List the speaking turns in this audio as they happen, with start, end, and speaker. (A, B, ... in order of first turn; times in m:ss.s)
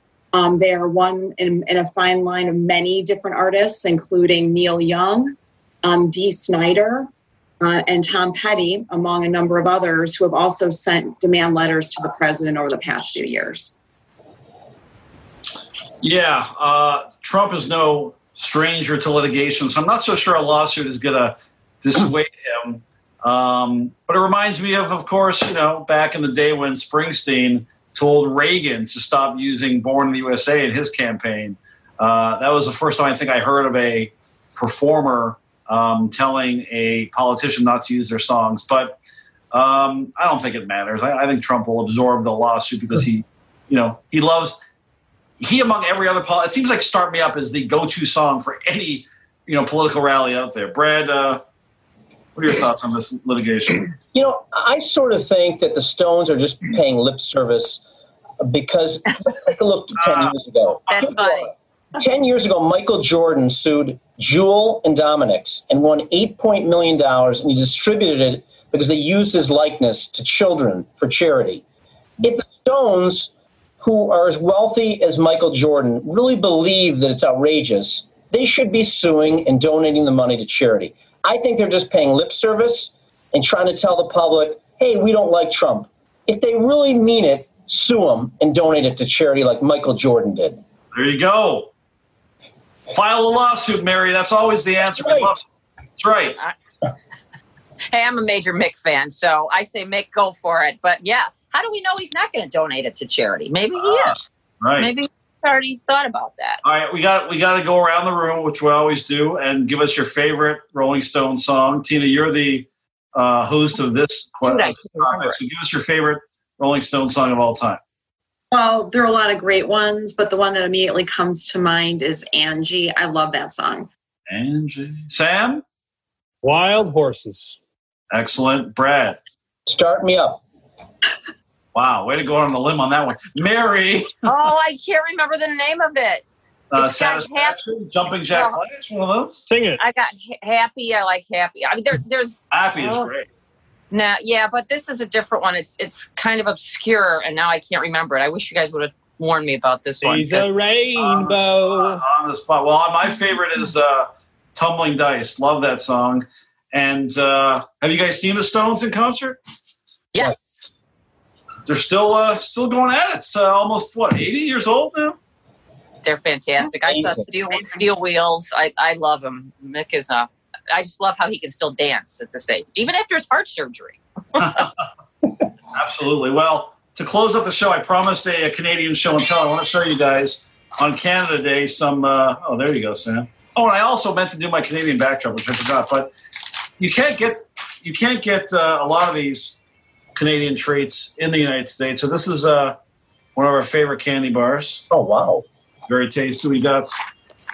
0:00.3-0:07.1 A
0:07.6-0:13.8 A
0:16.0-0:39.0 B
0:39.5-0:44.6 B
0:45.4-0:51.4 B
0:52.4-0:53.9 B
0:54.1-0:57.8 C
0:58.4-1:11.6 C
1:00.0-1:00.3 B
1:00.9-1:01.5 D
1:12.2-1:30.6 C
1:30.9-1:31.7 B
1:32.9-1:35.4 B
1:35.0-1:35.4 C
1:36.0-1:36.4 B
1:37.9-1:46.6 D
1:43.8-1:44.9 B
1:46.6-1:57.8 B
1:54.4-1:55.4 D
1:58.5-2:03.9 A
2:04.3-2:05.6 B
2:06.4-2:07.6 E
2:08.1-2:09.2 B
2:09.7-2:10.4 C
2:11.7-2:14.3 B
2:14.2-2:17.6 D
2:16.7-2:19.4 B
2:18.3-2:18.6 D
2:19.5-2:19.8 E
2:19.8-2:23.1 D
2:22.5-2:23.3 B
2:23.9-2:30.4 D
2:30.0-2:32.0 E
2:31.0-2:39.4 B
2:40.1-2:40.6 D
2:41.7-2:45.2 B
2:46.0-2:54.6 D
2:46.9-2:47.3 C
2:54.4-2:54.7 B
2:55.7-3:06.1 B
3:06.8-3:09.6 B
3:10.2-3:12.8 B
3:13.4-3:14.9 B
3:14.9-3:15.4 C
3:15.9-3:16.9 B